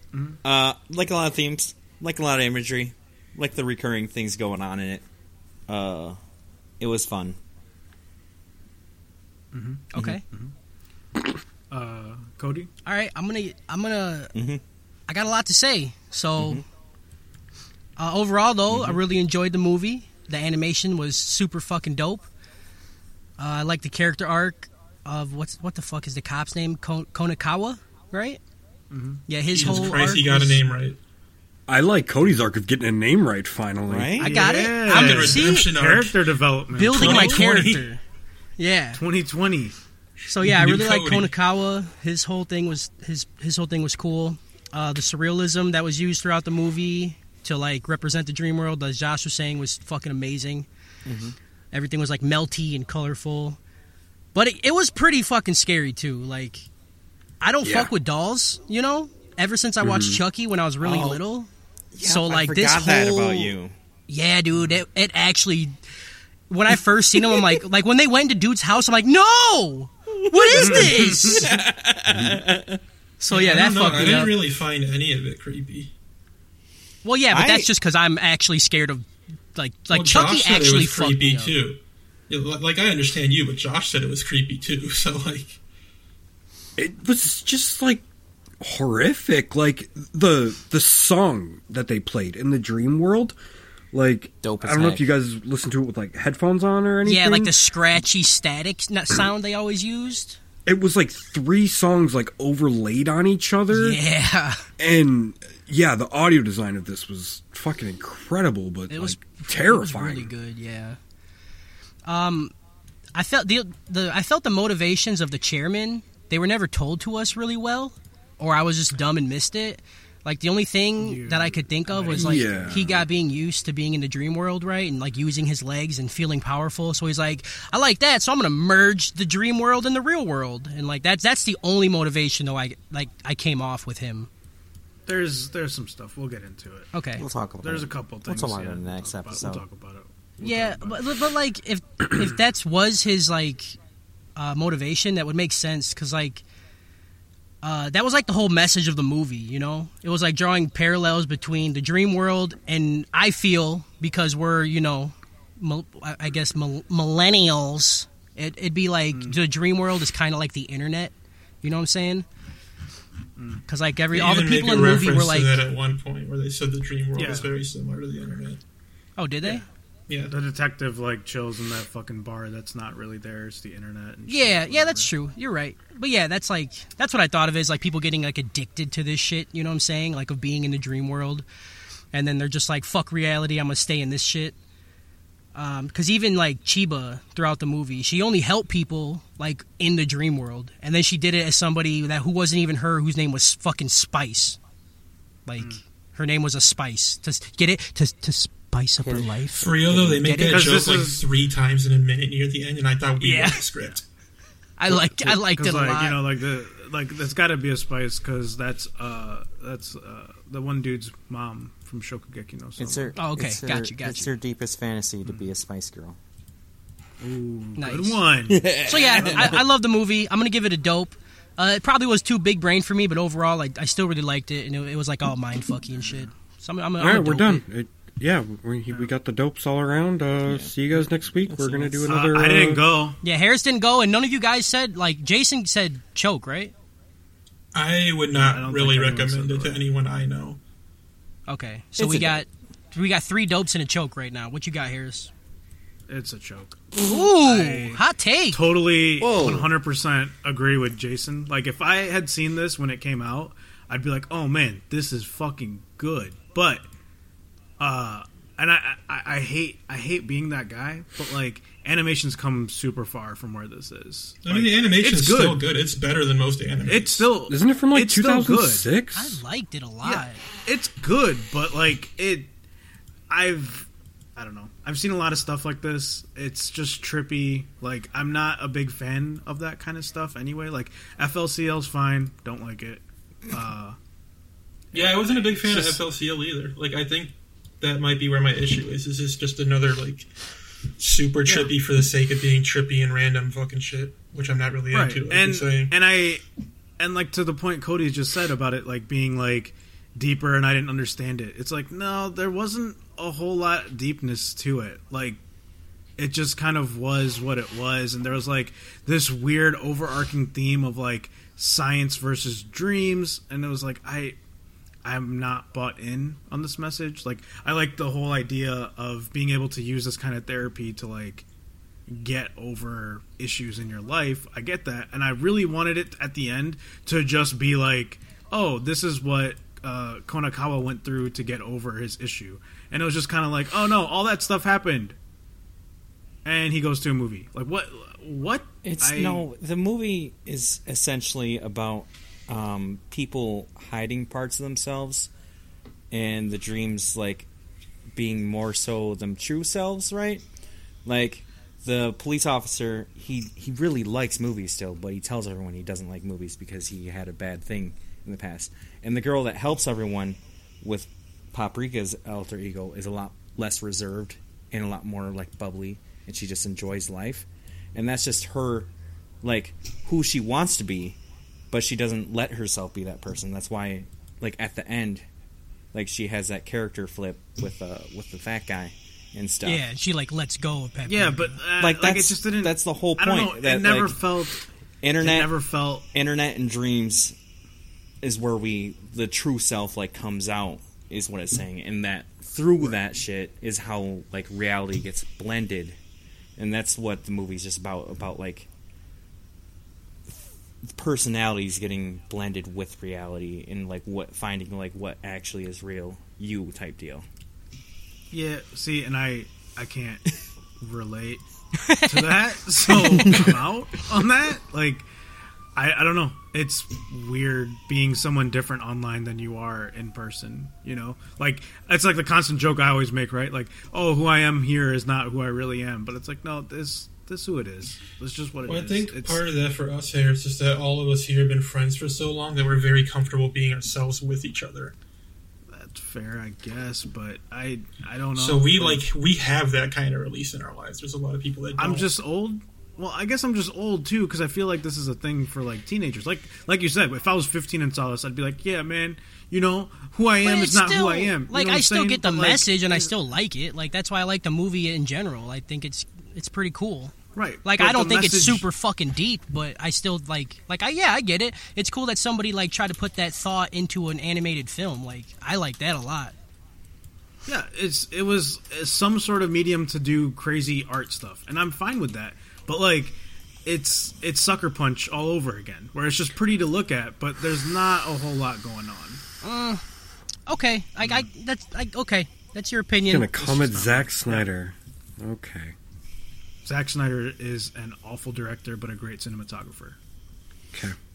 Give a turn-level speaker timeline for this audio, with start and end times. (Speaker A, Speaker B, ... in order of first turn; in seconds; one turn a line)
Speaker A: 0.4-5.0
Speaker A: 5.7-6.2
Speaker A: 6.8-7.4
Speaker B: 9.5-10.5
Speaker C: 9.9-10.2
Speaker B: 11.7-12.7
Speaker C: 12.8-14.3
Speaker A: 14.3-14.6
Speaker C: 15.1-16.6
Speaker A: 16.4-16.6
Speaker C: 18.0-22.3
Speaker A: 18.7-19.0
Speaker C: 23.4-28.4
Speaker B: 28.9-29.2
Speaker C: 29.3-30.6
Speaker D: 29.5-31.0
Speaker E: 31.7-34.2
Speaker A: 33.9-34.5
Speaker C: 34.2-35.7
Speaker B: 34.2-37.4
Speaker D: 34.8-36.2
Speaker C: 36.7-38.0
Speaker D: 36.9-37.9
Speaker C: 38.6-39.0
Speaker B: 39.0-39.8
Speaker D: 40.3-41.3
Speaker C: 40.3-50.7
Speaker A: 51.0-51.4
Speaker C: 51.7-53.6
Speaker C: 54.4-56.7
Speaker C: 57.4-61.5
Speaker E: 57.6-57.9
Speaker E: 59.8-60.2
Speaker A: 60.8-61.2
Speaker A: 61.9-63.8
Speaker C: 62.0-63.5
Speaker C: 64.1-65.8
Speaker C: 66.5-71.5
Speaker A: 67.3-67.6
Speaker A: 70.2-72.8
Speaker B: 70.5-71.5
Speaker E: 72.1-72.4
Speaker C: 73.2-74.4
Speaker D: 73.3-75.9
Speaker C: 77.0-81.5
Speaker A: 77.3-77.7
Speaker D: 79.9-85.6
Speaker E: 86.8-88.0
Speaker E: 88.6-93.4
Speaker E: 93.9-97.5
Speaker A: 94.4-95.1
Speaker C: 97.0-100.4
Speaker E: 100.7-104.0
Speaker C: 103.7-104.7
Speaker E: 104.8-110.3
Speaker C: 108.9-111.0
Speaker C: 112.1-112.5
Speaker C: 113.2-134.3
Speaker B: 121.0-122.8
Speaker E: 122.1-123.0
Speaker B: 135.1-136.9
Speaker C: 136.9-137.2
Speaker A: 137.2-139.6
Speaker B: 137.6-141.1
Speaker C: 140.4-143.8
Speaker C: 144.4-146.4
Speaker C: 147.6-162.3
Speaker B: 163.4-163.6
Speaker C: 163.7-165.7
Speaker D: 164.1-168.6
Speaker B: 167.2-167.5
Speaker C: 169.2-169.6
Speaker B: 169.4-169.7
Speaker D: 170.1-170.3
Speaker B: 170.3-175.1
Speaker C: 174.3-181.5
Speaker C: 182.1-184.6
Speaker C: 185.5-194.6
Speaker C: 195.5-200.8
Speaker A: 199.0-200.5
Speaker D: 199.6-204.0
Speaker B: 200.4-201.3
Speaker C: 203.2-203.7
Speaker C: 204.8-206.2
Speaker B: 205.3-213.2
Speaker A: 212.8-216.2
Speaker C: 213.2-214.3
Speaker B: 217.2-219.6
Speaker C: 217.8-218.2
Speaker A: 218.5-219.6
Speaker C: 218.8-227.6
Speaker B: 226.0-226.3
Speaker E: 227.0-232.9
Speaker A: 230.5-232.2
Speaker B: 232.1-233.2
Speaker C: 233.2-236.7
Speaker D: 237.7-240.6
Speaker B: 238.3-239.8
Speaker C: 241.5-245.3
Speaker A: 242.0-242.4
Speaker B: 246.1-256.9
Speaker C: 247.0-248.6
Speaker A: 249.2-249.7
Speaker B: 257.8-265.6
Speaker D: 264.4-267.3
Speaker B: 266.9-268.9
Speaker E: 267.5-269.4
Speaker C: 269.1-270.4
Speaker B: 270.0-272.5
Speaker B: 273.3-284.0
Speaker B: 284.9-286.0
Speaker D: 284.9-290.3
Speaker D: 291.0-295.9
Speaker B: 291.5-291.7
Speaker B: 294.9-296.4
Speaker B: 297.0-305.4
Speaker B: 306.2-314.4
Speaker B: 315.0-321.4
Speaker B: 322.1-335.2
Speaker B: 336.4-339.4
Speaker A: 338.8-345.3
Speaker A: 346.1-347.5
Speaker A: 348.1-350.4
Speaker A: 351.1-368.9
Speaker A: 369.4-371.2
Speaker A: 371.7-375.2
Speaker A: 375.9-379.8
Speaker C: 379.6-381.5
Speaker B: 381.1-384.6
Speaker A: 381.8-384.3
Speaker A: 385.0-385.6
Speaker B: 385.2-386.1
Speaker A: 386.1-387.4
Speaker A: 388.2-396.0
Speaker A: 396.6-398.7
Speaker A: 400.9-407.2
Speaker B: 408.3-410.3
Speaker B: 410.8-411.4
Speaker C: 411.8-412.3
Speaker B: 411.9-415.1
Speaker A: 412.9-413.6
Speaker B: 415.8-429.4
Speaker D: 428.7-434.9
Speaker B: 435.7-439.0
Speaker D: 438.4-442.1
Speaker B: 441.8-453.1
Speaker C: 450.4-466.3
Speaker B: 457.4-458.7
Speaker B: 467.5-479.2
Speaker C: 479.4-479.8
Speaker C: 480.5-483.3
Speaker E: 483.1-485.8
Speaker B: 483.4-484.5
Speaker B: 486.6-490.0